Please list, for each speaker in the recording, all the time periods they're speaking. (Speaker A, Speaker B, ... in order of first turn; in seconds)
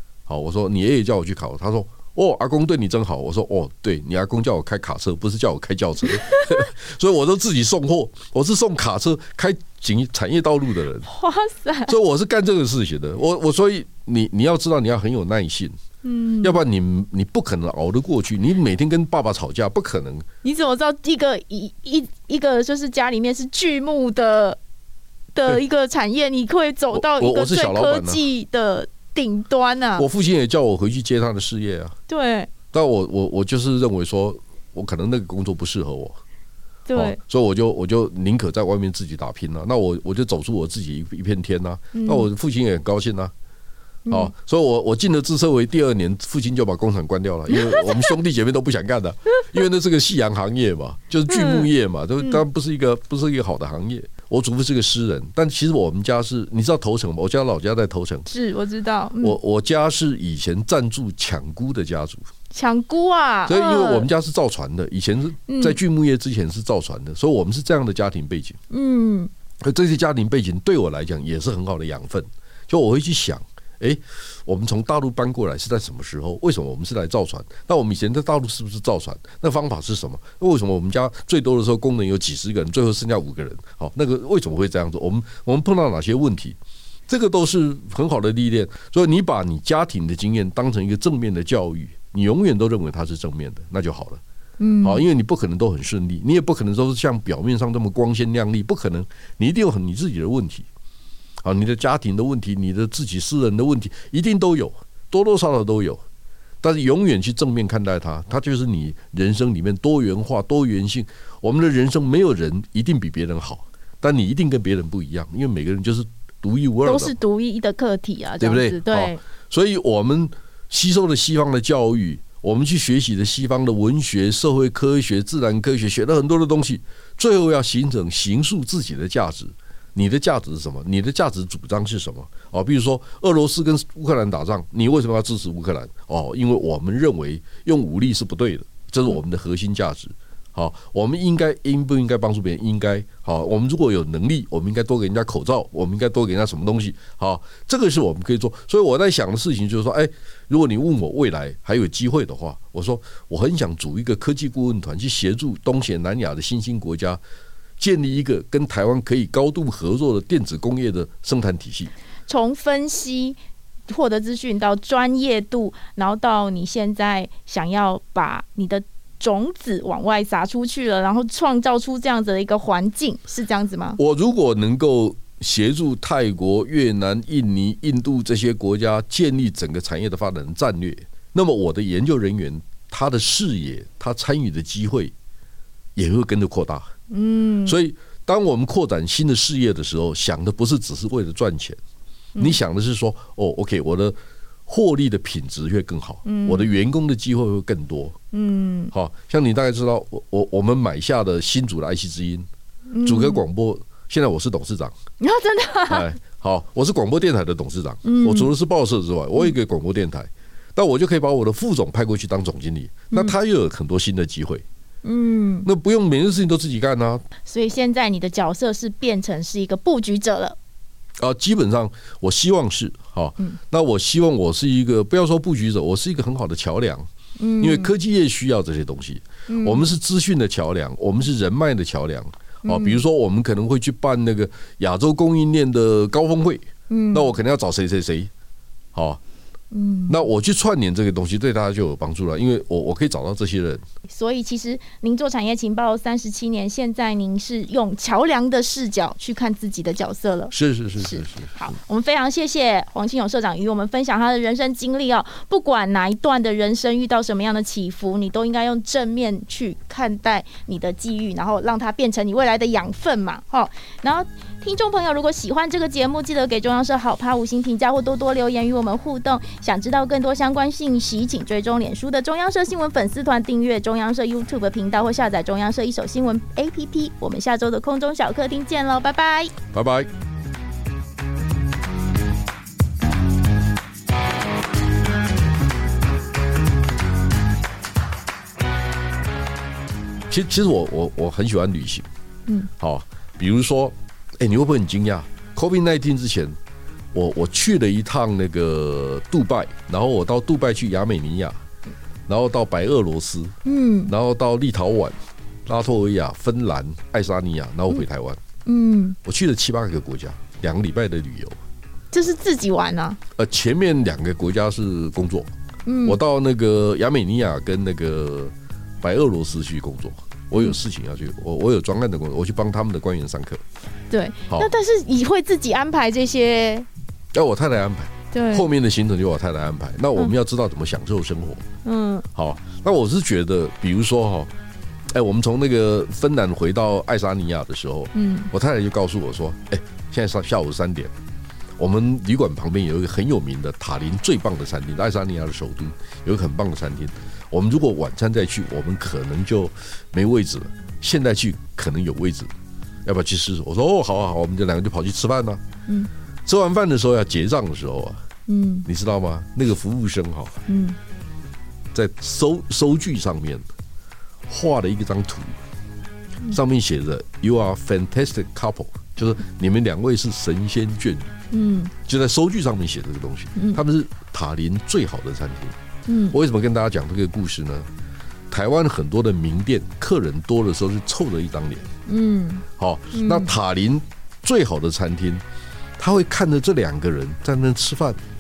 Speaker A: 0.3-11.1, 11.9-15.8, 16.4-20.3, 26.9-28.2, 30.0-31.9, 32.7-36.2, 36.9-43.3, 44.1-58.3, 59.2-62.3, 63.5-68.6, 69.6-86.6, 87.1-94.2, 94.8-100.7, 101.4-106.0, 106.6-117.1, 118.4-157.2, 157.8-161.9, 174.0-185.1, 186.0-186.9, 187.7-191.8, 192.4-198.2, 198.9-202.5, 203.0-205.0, 205.9-214.6, 215.7-217.2, 221.2-227.1, 227.6-238.3, 238.9-239.2, 240.1-243.8, 250.5-251.6, 279.7-280.1, 290.3-292.1, 292.8-296.6, 297.1-301.6, 302.3-303.6, 304.1-305.1, 305.7-308.4, 309.2-311.6, 313.4-315.5, 316.1-323.6, 327.3-331.6, 332.4-334.5, 335.1-341.1, 341.8-352.5, 353.1-355.6, 356.4-358.2, 358.9-360.6, 361.9-363.6, 364.5-365.6, 366.5-371.4, 372.1-375.8, 376.3-377.9, 378.5-381.9, 382.8-385.4, 386.0-388.2
Speaker B: 6.3-6.6, 11.1-11.9, 16.0-16.6, 20.4-24.6, 25.3-30.1, 32.1-32.5, 36.9-37.2, 41.9-42.3, 44.1-44.3, 47.5-48.1, 51.3-52.4, 58.3-59.4, 62.5-64.1, 65.5-65.8, 68.7-69.3, 94.6-95.0, 116.8-119.2, 162.3-163.4, 163.9-174.0, 187.1-187.8, 196.2-196.7, 198.3-198.9, 202.9-203.4, 205.2-206.1, 208.0-208.5, 215.0-215.7, 217.5-220.6, 227.4-227.9, 229.5-229.9, 232.6-233.0, 236.9-237.3, 239.7-240.2, 244.1-279.5, 303.6-304.1, 308.6-309.2, 312.1-313.2, 315.9-316.2, 324.1-326.9, 328.3-328.7, 331.9-332.3, 338.1-338.5, 358.5-358.9, 360.7-361.0, 371.5-371.9, 376.1-376.4, 382.1-383.6